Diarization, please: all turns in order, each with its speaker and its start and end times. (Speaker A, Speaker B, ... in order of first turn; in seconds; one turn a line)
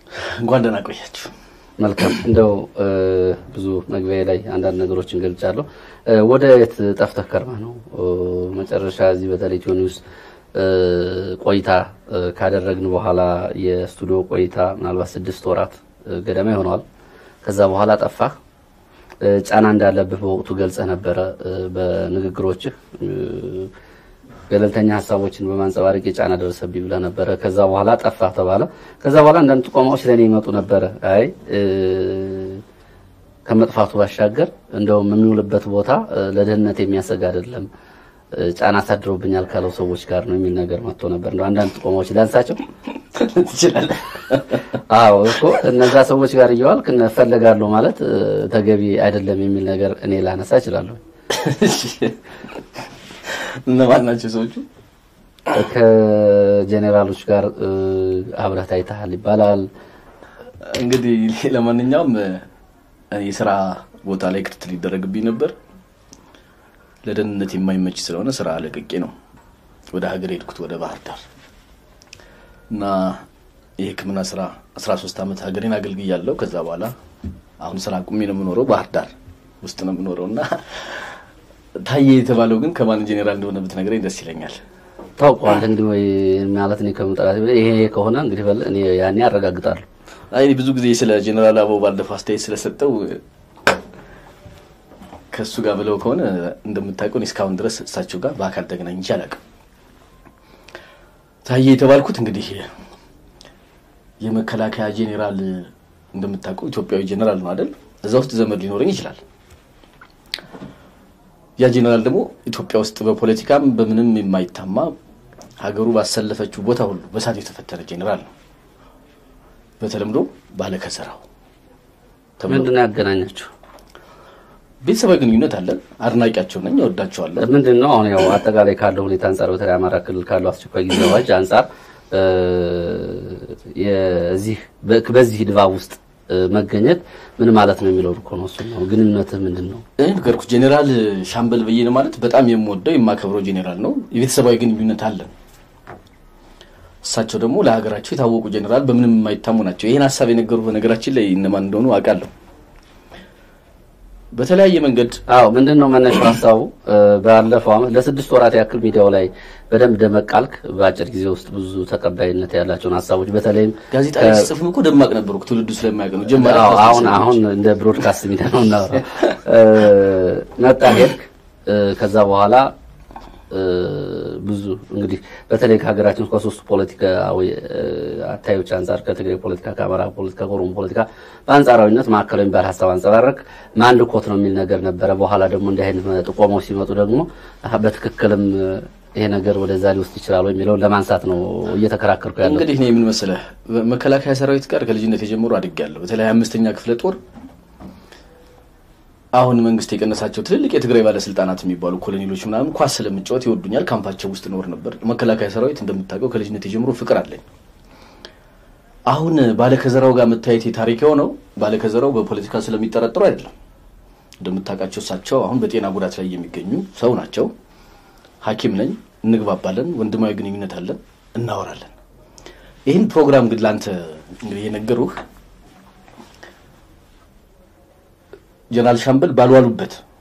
Speaker A: 0.2-1.3
Speaker B: 1.8-10.0
Speaker B: 10.5-16.8
Speaker B: 17.4-18.3
Speaker B: 19.2-23.7
Speaker B: 24.5-32.6
Speaker B: 33.5-37.7
Speaker B: 38.3-42.6
Speaker A: 43.1-44.6
Speaker B: 44.9-51.0
Speaker A: 51.3-52.2
Speaker A: 53.3-54.6
Speaker B: 55.5-59.7
Speaker A: 60.6-62.5
Speaker A: 63.1-65.5
Speaker A: 67.0-69.1
Speaker A: 69.9-71.2
Speaker A: 72.7-73.2
Speaker A: 73.8-76.9
Speaker A: 77.6-81.1
Speaker A: 81.8-84.6
Speaker B: 85.2-89.8
Speaker A: 90.3-93.2
Speaker A: 95.3-99.4
Speaker A: 101.4-102.7
Speaker A: 104.2-109.2
Speaker A: 111.6-114.9
Speaker A: 115.6-118.3
Speaker A: 119.8-121.2
Speaker A: 122.4-122.7
Speaker B: 122.5-123.5
Speaker A: 124.8-127.5
Speaker B: 127.4-139.8
Speaker A: 140.0-145.3
Speaker A: 147.0-152.3
Speaker A: 154.3-155.2
Speaker B: 155.3-164.5
Speaker A: 163.9-167.4
Speaker B: 166.4-172.7
Speaker B: 173.5-192.7
Speaker A: 192.4-197.2
Speaker A: 199.3-207.4
Speaker A: 209.1-213.5
Speaker A: 214.4-217.5
Speaker A: 218.4-221.9
Speaker A: 222.8-225.2
Speaker A: 228.7-230.0